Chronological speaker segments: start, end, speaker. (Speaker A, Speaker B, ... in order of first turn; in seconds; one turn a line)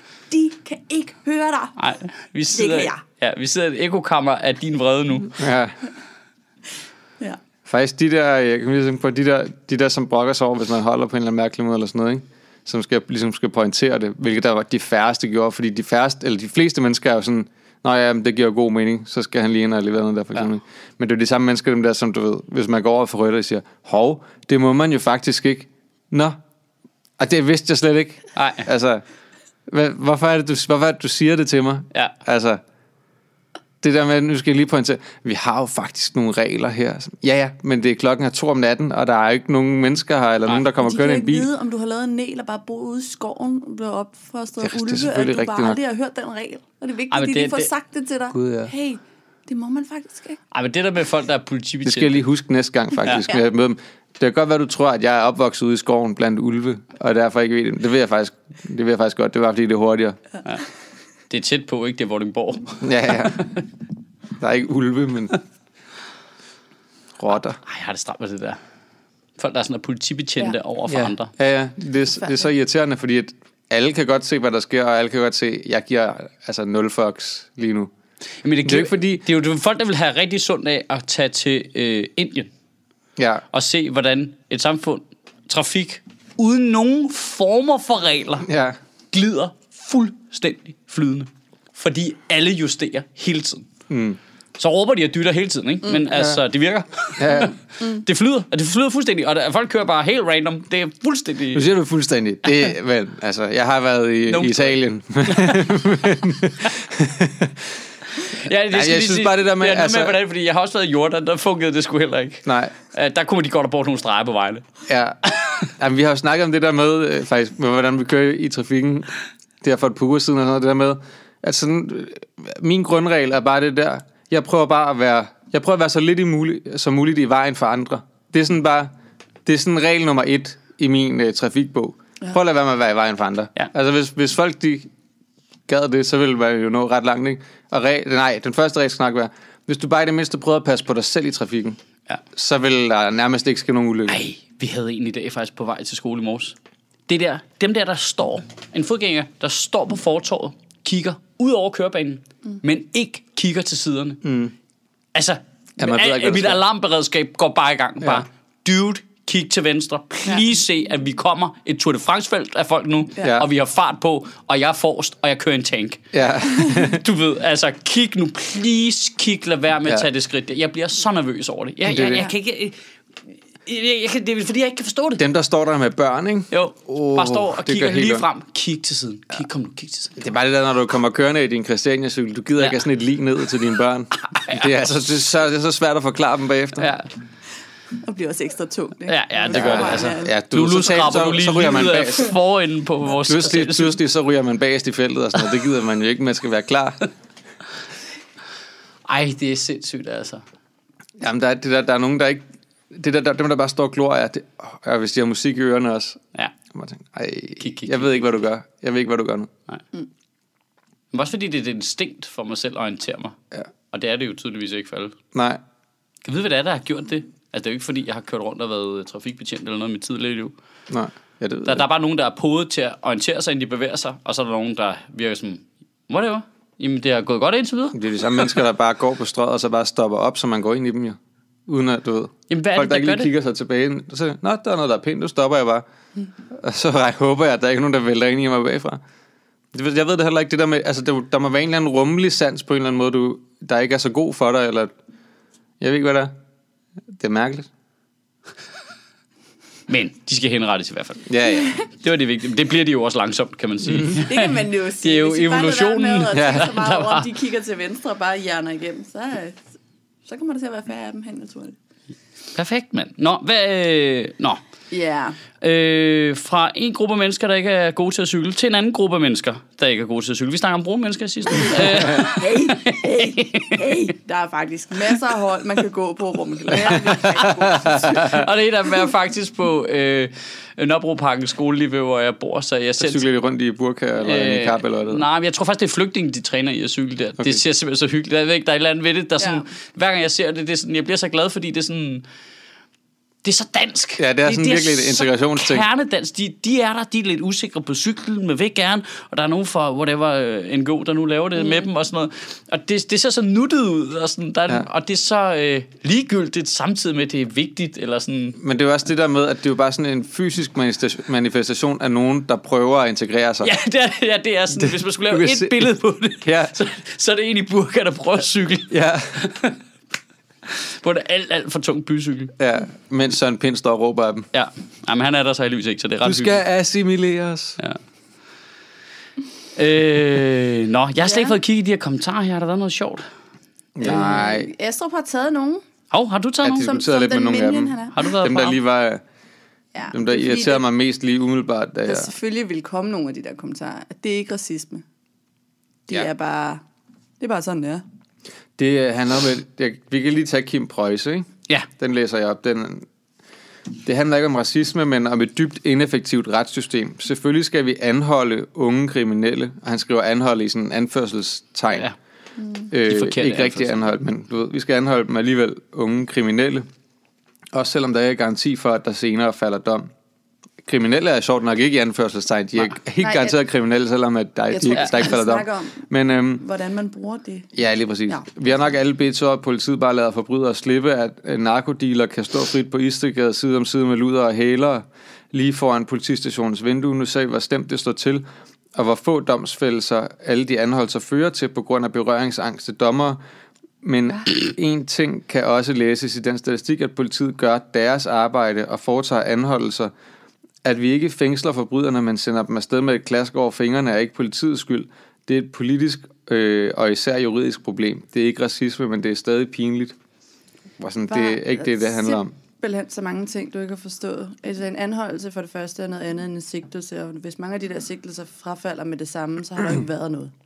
Speaker A: 0.3-1.8
Speaker B: 1.8-5.4
Speaker A: 2.5-3.0
Speaker C: 5.3-5.8
Speaker C: 7.7-26.4
Speaker C: 27.2-29.0
Speaker B: 28.3-28.7
Speaker C: 29.7-32.6
Speaker C: 33.8-41.5
Speaker A: 40.7-50.4
Speaker C: 44.6-45.8
Speaker B: 47.1-47.7
Speaker C: 48.3-48.7
Speaker B: 50.5-52.2
Speaker C: 51.8-60.2
Speaker B: 61.3-63.4
Speaker C: 62.8-63.5
Speaker C: 64.4-65.3
Speaker C: 67.2-67.6
Speaker B: 67.6-68.6
Speaker B: 69.4-71.3
Speaker C: 70.9-77.9
Speaker A: 72.2-72.4
Speaker B: 78.4-82.5
Speaker C: 78.6-79.2
Speaker C: 83.2-83.4
Speaker B: 83.5-88.5
Speaker C: 88.4-88.8
Speaker B: 89.1-93.7
Speaker C: 93.9-94.2
Speaker B: 94.6-101.7
Speaker C: 96.1-96.4
Speaker C: 97.2-97.5
Speaker C: 101.5-107.8
Speaker B: 104.3-105.6
Speaker B: 108.2-114.6
Speaker C: 108.7-110.2
Speaker C: 112.4-112.7
Speaker C: 114.9-115.2
Speaker B: 115.2-115.7
Speaker C: 115.8-119.1
Speaker C: 119.6-128.9
Speaker C: 129.4-134.9
Speaker C: 135.7-141.8
Speaker C: 142.3-144.2
Speaker B: 144.1-146.6
Speaker B: 147.1-154.2
Speaker C: 154.2-154.5
Speaker B: 155.1-166.0
Speaker C: 155.8-156.6
Speaker C: 163.2-163.4
Speaker C: 166.1-167.0
Speaker B: 166.7-172.8
Speaker C: 171.9-172.2
Speaker B: 173.6-175.2
Speaker C: 175.2-178.2
Speaker B: 176.5-180.2
Speaker C: 180.2-186.9
Speaker B: 184.3-184.7
Speaker B: 186.8-187.1
Speaker A: 188.0-190.4
Speaker B: 189.1-193.9
Speaker C: 189.5-192.3
Speaker C: 193.2-197.0
Speaker B: 199.1-200.4
Speaker C: 201.2-206.2
Speaker C: 206.7-209.5
Speaker B: 207.6-208.2
Speaker B: 211.1-213.4
Speaker B: 213.9-215.2
Speaker C: 215.3-215.6
Speaker B: 216.2-220.5
Speaker C: 220.9-221.8
Speaker B: 221.6-228.0
Speaker C: 227.9-235.8
Speaker B: 232.5-233.3
Speaker C: 236.5-239.0
Speaker C: 239.7-244.9
Speaker C: 245.8-246.3
Speaker C: 247.1-247.7
Speaker B: 249.9-257.3
Speaker C: 251.3-251.8
Speaker A: 251.5-251.8
Speaker A: 254.2-259.6
Speaker C: 256.3-256.7
Speaker A: 260.2-261.8
Speaker B: 262.5-264.6
Speaker A: 264.9-265.4
Speaker B: 265.6-274.1
Speaker A: 271.6-278.2
Speaker B: 276.7-277.3
Speaker C: 276.8-278.4
Speaker B: 277.8-283.2
Speaker C: 283.0-285.2
Speaker B: 284.2-292.2
Speaker B: 293.4-308.6
Speaker C: 294.2-295.9
Speaker A: 301.6-301.9
Speaker C: 308.6-313.7
Speaker B: 313.6-319.8
Speaker C: 314.8-315.9
Speaker C: 316.4-316.7
Speaker C: 318.9-319.4
Speaker B: 320.6-322.5
Speaker C: 322.6-324.5
Speaker B: 324.5-326.6
Speaker C: 326.2-327.8
Speaker B: 329.7-333.3
Speaker A: 331.2-331.6
Speaker C: 334.0-334.7
Speaker A: 334.0-335.8
Speaker B: 336.1-337.0
Speaker C: 336.6-339.2
Speaker A: 336.8-338.4
Speaker B: 338.1-338.8
Speaker A: 339.9-340.8
Speaker C: 340.1-342.3
Speaker A: 342.1-345.0
Speaker A: 346.1-346.8
Speaker A: 347.4-348.0
Speaker C: 348.8-353.1
Speaker C: 354.0-362.1
Speaker A: 362.6-362.9
Speaker C: 362.9-366.9
Speaker B: 363.0-364.0
Speaker C: 367.7-370.1
Speaker C: 370.8-376.6
Speaker A: 373.2-373.6
Speaker A: 374.7-377.7
Speaker C: 377.7-388.4
Speaker C: 388.9-393.4
Speaker C: 394.0-400.1
Speaker C: 400.8-410.1
Speaker C: 411.0-412.5
Speaker A: 411.3-420.5